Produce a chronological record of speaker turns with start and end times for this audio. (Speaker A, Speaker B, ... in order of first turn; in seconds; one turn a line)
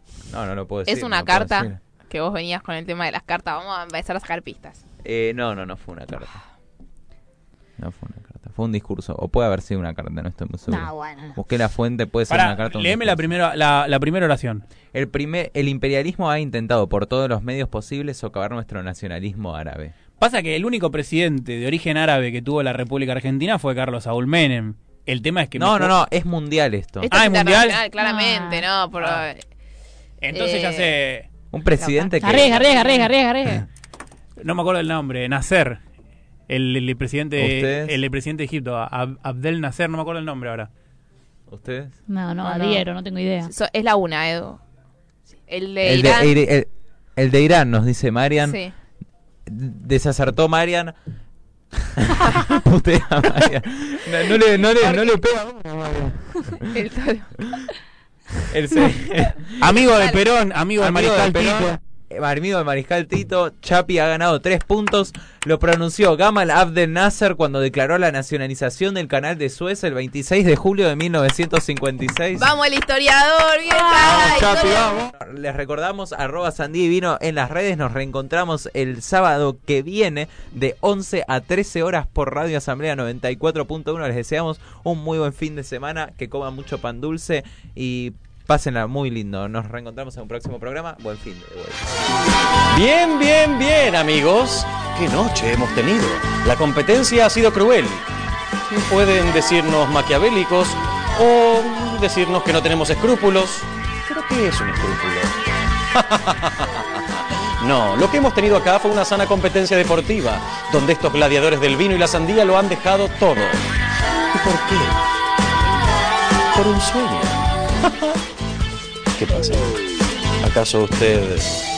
Speaker A: 0.3-1.8
Speaker B: 0.9-4.8
Speaker A: 5.0-6.4
Speaker A: 7.8-13.3
Speaker C: 10.7-11.4
Speaker D: 12.3-14.6
Speaker A: 14.9-19.9
Speaker D: 20.2-25.9
Speaker A: 25.6-27.1
Speaker B: 27.1-29.4
Speaker D: 27.1-27.8
Speaker C: 28.0-28.7
Speaker D: 30.2-31.3
Speaker B: 30.3-30.9
Speaker A: 31.5-32.7
Speaker B: 31.8-33.1
Speaker C: 32.2-33.7
Speaker D: 32.3-32.8
Speaker D: 34.4-35.8
Speaker D: 36.5-40.7
Speaker A: 37.4-38.0
Speaker A: 41.5-42.0
Speaker C: 42.1-43.5
Speaker B: 42.4-42.8
Speaker B: 43.4-44.6
Speaker B: 45.5-46.4
Speaker A: 45.8-48.6
Speaker B: 48.4-48.7
Speaker A: 49.5-51.0
Speaker A: 52.0-56.7
Speaker B: 54.8-55.2
Speaker B: 56.6-57.7
Speaker A: 58.5-59.5
Speaker D: 59.6-61.8
Speaker B: 59.8-60.2
Speaker A: 60.8-72.5
Speaker B: 72.4-75.0
Speaker A: 74.1-91.9
Speaker E: 92.7-98.0
Speaker E: 98.7-105.4
Speaker E: 105.9-113.6
Speaker E: 114.3-115.0
Speaker E: 116.5-118.1
Speaker E: 119.2-119.8
Speaker E: 120.4-121.6